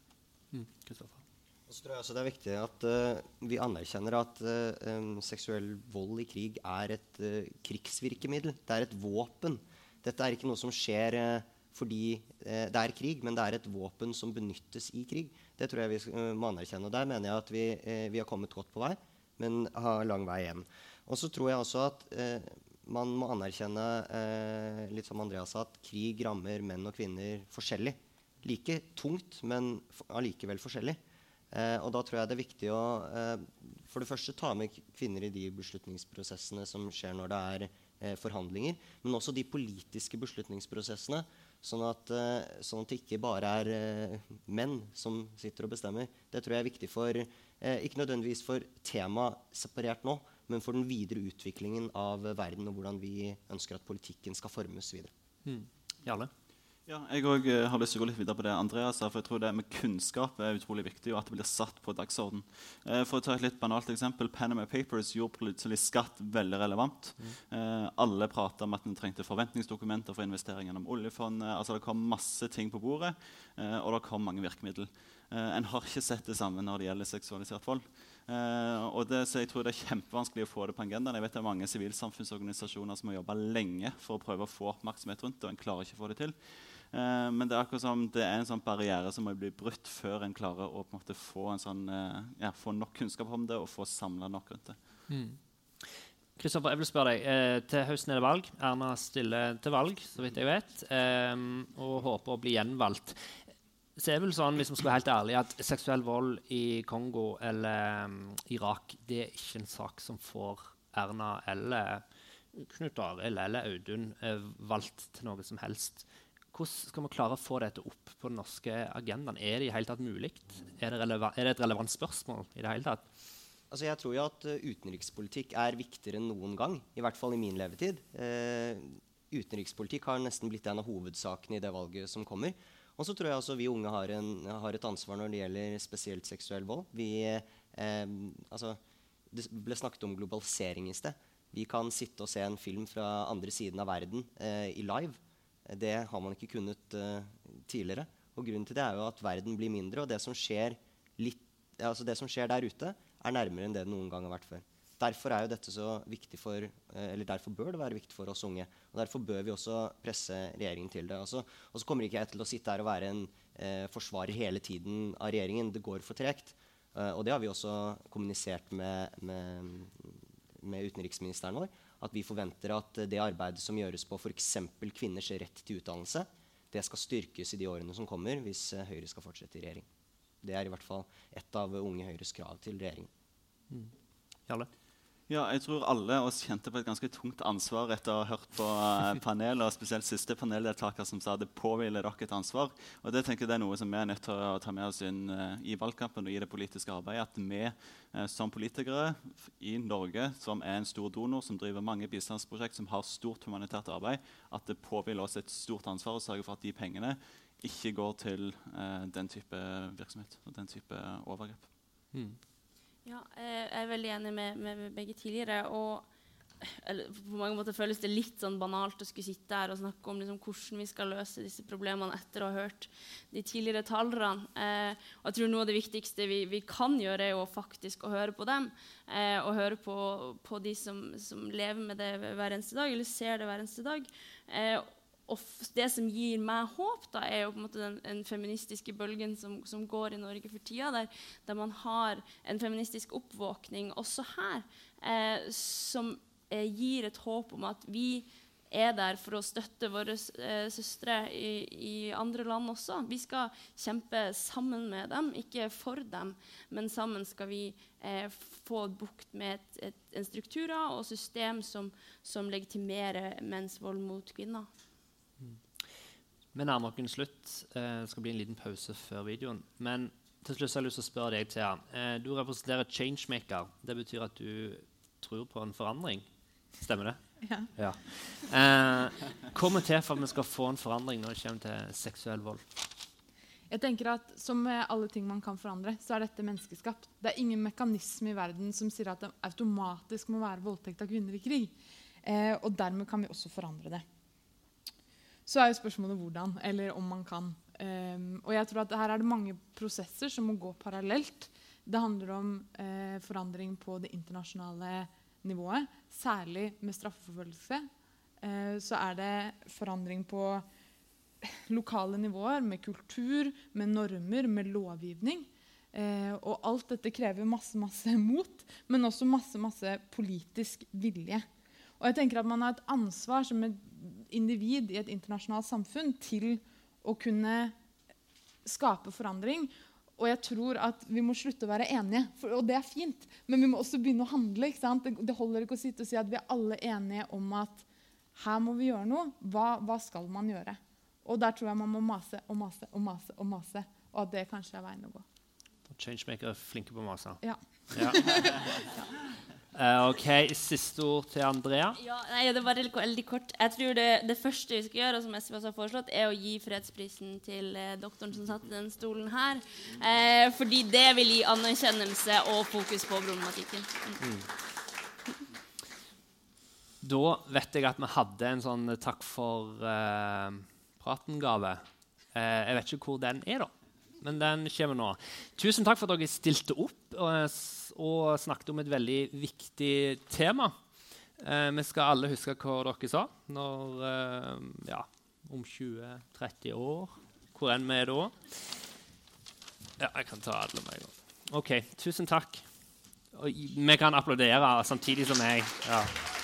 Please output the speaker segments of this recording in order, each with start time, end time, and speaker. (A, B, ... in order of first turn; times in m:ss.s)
0:00.5-0:01.2 A
0:01.7-0:31.0 B
0:31.5-0:55.1 B
0:55.4-0:56.3 A
0:56.9-1:34.9 C
1:35.1-1:43.4 A
1:44.0-2:03.1 A
2:03.7-2:18.8 B
2:19.3-2:59.8 B
3:00.4-3:03.1 B
3:05.3-3:31.7 C
3:32.1-3:32.4 A
3:33.0-3:36.1 D
3:36.6-4:24.7 D
4:26.5-4:36.2 A
4:36.8-4:37.2 A
4:37.4-4:37.7 E
4:37.7-4:42.6 A
4:43.7-4:54.0 E
4:55.4-5:07.8 E
5:08.4-5:10.6 E
5:11.4-5:21.4 E
5:22.0-5:27.8 E
5:28.6-5:45.2 E
5:45.9-5:48.5 A
5:47.4-5:48.5 E
5:49.7-5:52.0 A
5:52.0-6:04.2 D
6:04.2-6:04.5 A
6:07.0-6:20.7 A
6:21.4-6:28.7 A
6:30.0-6:32.6 A
6:33.3-6:36.2 A